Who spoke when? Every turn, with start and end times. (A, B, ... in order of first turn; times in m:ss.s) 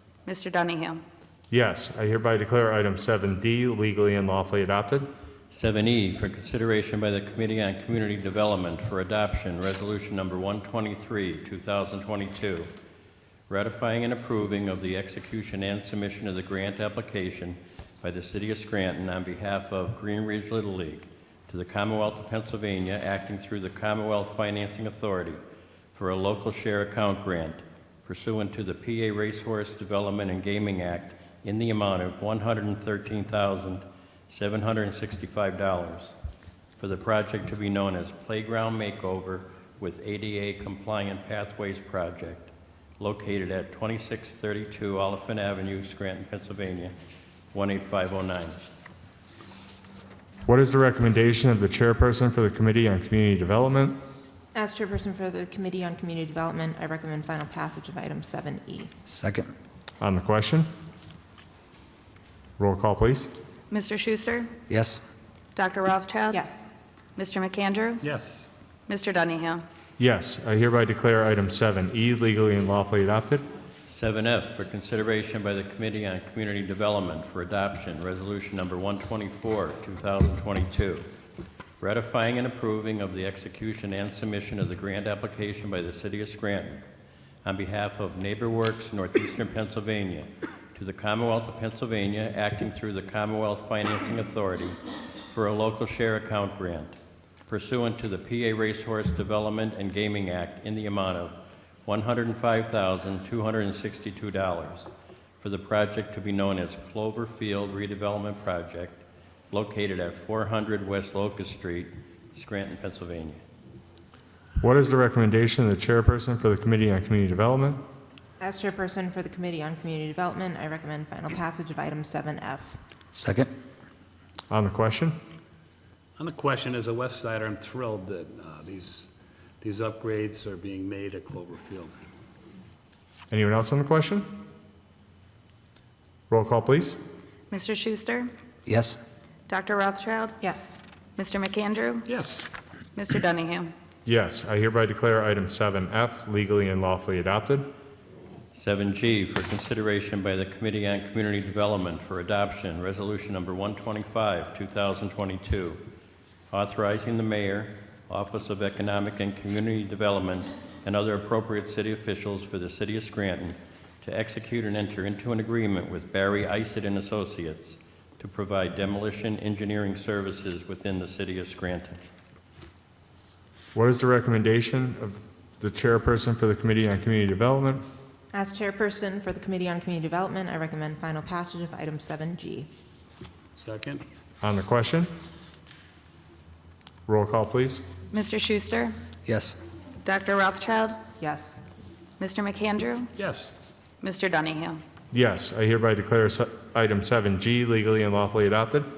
0:00.2-0:01.0 A
0:01.5-0:05.1 B
0:05.5-0:12.7 C
0:13.5-0:25.4 C
0:25.9-0:36.1 C
0:36.8-0:46.9 C
0:47.5-0:48.6 C
0:50.4-0:54.0 B
0:54.5-0:58.9 D
0:59.0-0:59.5 E
1:00.0-1:00.7 B
1:02.6-1:03.3 B
1:03.7-1:04.5 A
1:04.7-1:05.0 E
1:05.6-1:06.4 A
1:06.3-1:06.7 D
1:07.2-1:08.0 A
1:08.0-1:08.5 F
1:08.9-1:09.6 A
1:10.0-1:13.4 B
1:13.9-1:21.0 C
1:21.8-1:26.8 C
1:27.4-1:34.8 C
1:35.3-1:36.9 C
1:37.5-1:53.4 C
1:54.6-1:57.8 B
1:58.4-2:02.8 D
2:03.1-2:03.5 E
2:04.5-2:05.2 B
2:06.2-2:11.9 F
2:13.3-2:14.3 B
2:16.3-2:17.0 B
2:17.5-2:18.3 A
2:18.6-2:19.0 E
2:19.5-2:20.4 A
2:20.4-2:20.9 D
2:21.1-2:22.1 A
2:22.1-2:22.5 F
2:22.9-2:23.7 A
2:24.0-2:27.7 B
2:28.5-2:35.8 C
2:36.5-2:52.0 C
2:53.7-2:57.8 B
2:58.3-3:02.7 D
3:03.6-3:04.0 F
3:04.4-3:05.1 B
3:07.1-3:07.8 B
3:08.1-3:08.9 A
3:09.2-3:09.6 E
3:10.0-3:11.0 A
3:11.2-3:11.6 D
3:12.2-3:13.1 A
3:13.2-3:13.5 F
3:14.0-3:14.8 A
3:15.1-3:18.9 B